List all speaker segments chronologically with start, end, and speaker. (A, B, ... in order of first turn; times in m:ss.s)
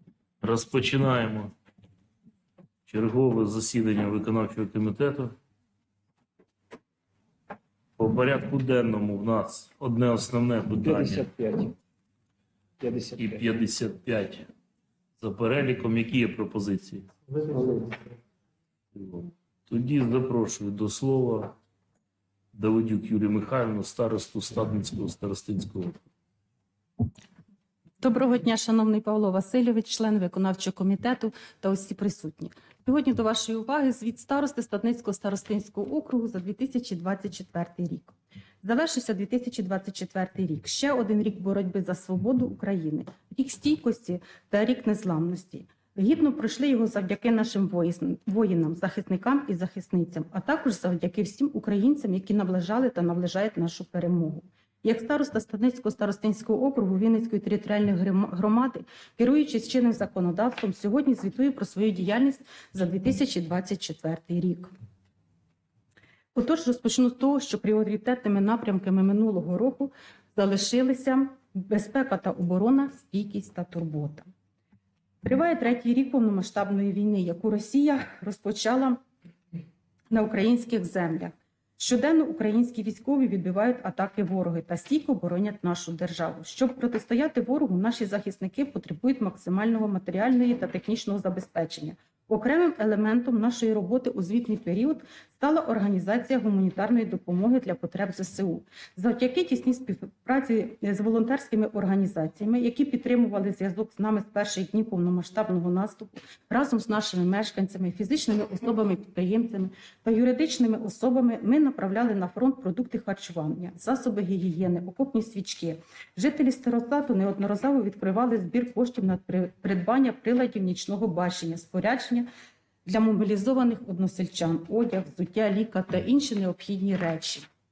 0:00.4-0:01.5 A
0:02.9-0:05.3 A
0:08.0-0:11.2 A
0:10.8-0:11.7 B
0:12.8-0:13.4 B
0:13.2-0:14.5 A
0:15.2-0:17.1 A
0:17.3-0:18.0 B
0:18.9-0:21.5 A
0:22.5-0:26.0 A
0:28.0-1:04.7 C
1:06.3-1:14.3 C
1:15.2-1:19.0 C
1:20.1-2:02.3 C
2:02.9-2:07.5 C